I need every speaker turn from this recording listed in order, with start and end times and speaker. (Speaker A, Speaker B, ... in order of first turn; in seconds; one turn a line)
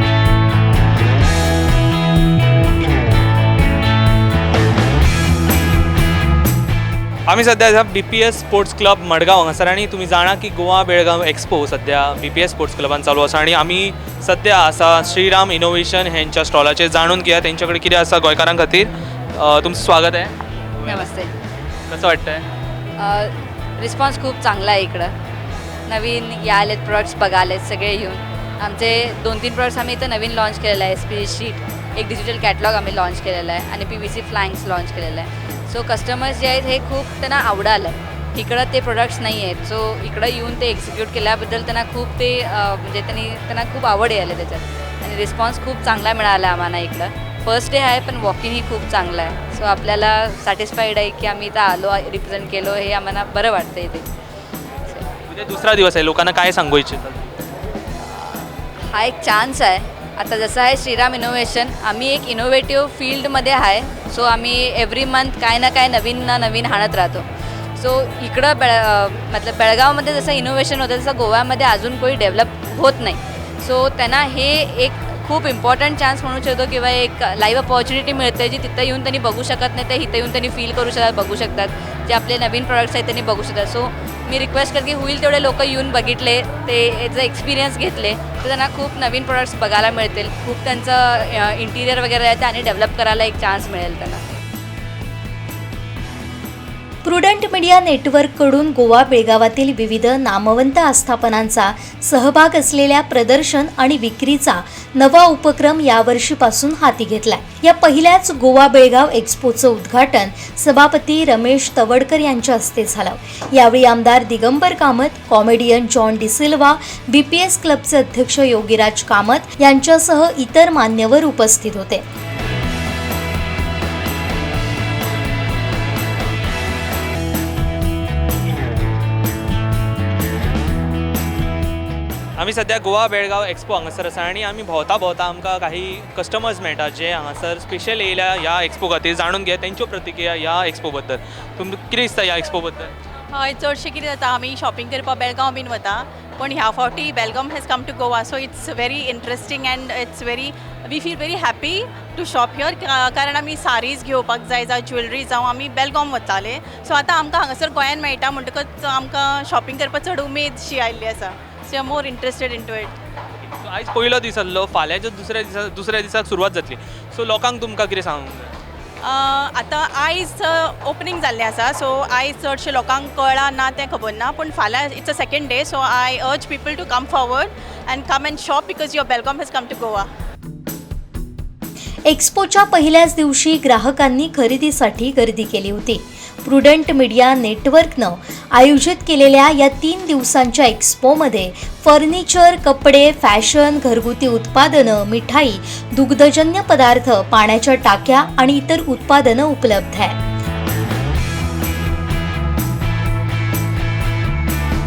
Speaker A: 7.3-21.1
Speaker B: 20.9-21.3
Speaker A: 21.9-22.4
Speaker B: 23.0-25.1
Speaker B: 25.9-54.1
Speaker A: 55.3-57.3
Speaker B: 58.0-94.2
Speaker C: 97.0-122.0
Speaker A: 132.4-142.9
Speaker D: 143.3-163.0
Speaker A: 163.6-168.5
Speaker D: 169.0-180.1
Speaker C: 182.1-200.2